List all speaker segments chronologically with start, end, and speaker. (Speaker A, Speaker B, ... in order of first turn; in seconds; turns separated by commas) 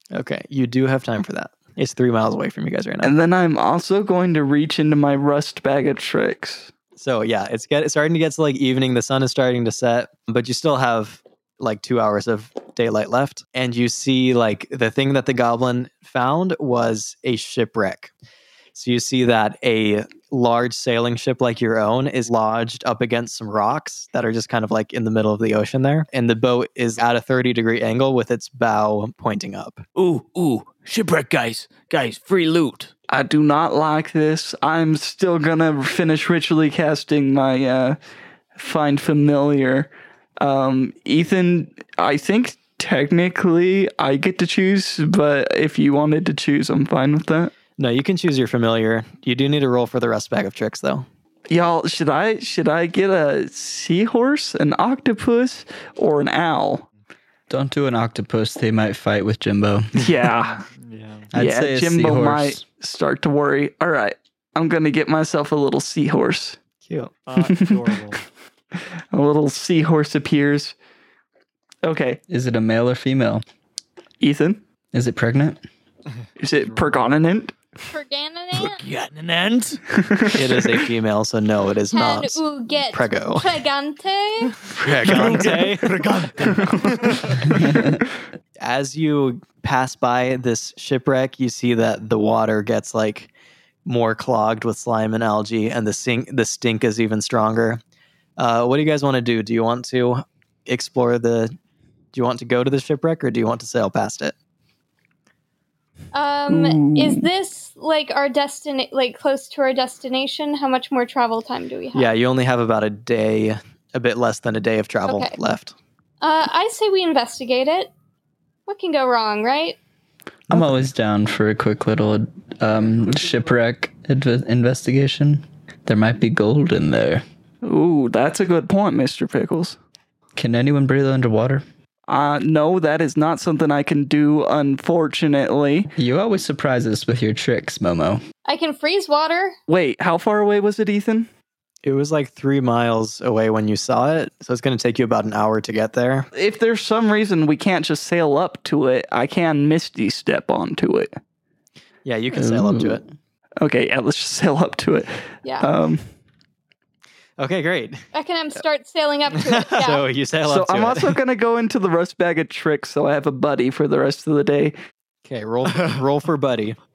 Speaker A: 0.1-3.1, Speaker B: 3.0-6.7, Speaker A: 7.0-18.1, Speaker A: 18.8-29.8, Speaker C: 30.0-32.9, Speaker B: 33.1-38.0, Speaker B: 38.6-47.5, Speaker A: 47.8-51.1, Speaker B: 51.5-56.9, Speaker D: 57.5-60.1, Speaker B: 60.0-60.7, Speaker C: 60.8-61.3, Speaker D: 61.3-62.6, Speaker B: 61.4-66.6, Speaker A: 66.8-67.1, Speaker C: 67.3-68.2, Speaker B: 67.4-67.9, Speaker B: 69.1-70.8, Speaker B: 71.8-72.2, Speaker D: 72.3-73.4, Speaker B: 74.2-74.6, Speaker D: 74.9-75.6, Speaker B: 76.4-77.5, Speaker E: 77.9-78.8, Speaker C: 78.6-79.8, Speaker B: 80.0-80.7, Speaker A: 80.3-83.6, Speaker E: 81.9-84.7, Speaker A: 84.7-86.6, Speaker C: 85.0-87.5, Speaker B: 86.8-87.9, Speaker D: 87.5-88.0, Speaker A: 88.6-93.3, Speaker A: 93.8-97.8, Speaker A: 98.4-101.5, Speaker A: 102.1-104.3, Speaker E: 106.1-112.1, Speaker B: 106.5-107.3, Speaker A: 111.9-115.8, Speaker E: 115.0-115.4, Speaker E: 116.2-117.9, Speaker E: 118.7-119.8, Speaker D: 120.5-127.2, Speaker B: 127.6-129.8, Speaker D: 130.4-131.6, Speaker B: 132.1-135.9, Speaker D: 136.0-138.2, Speaker E: 138.5-139.6, Speaker B: 139.7-141.3, Speaker A: 141.8-146.3, Speaker B: 146.3-151.2, Speaker A: 152.1-153.0, Speaker D: 152.3-153.0, Speaker B: 153.6-156.1, Speaker E: 155.4-155.7, Speaker A: 157.4-158.0, Speaker E: 158.1-160.1, Speaker A: 159.5-161.2, Speaker B: 160.5-164.8, Speaker A: 165.2-166.8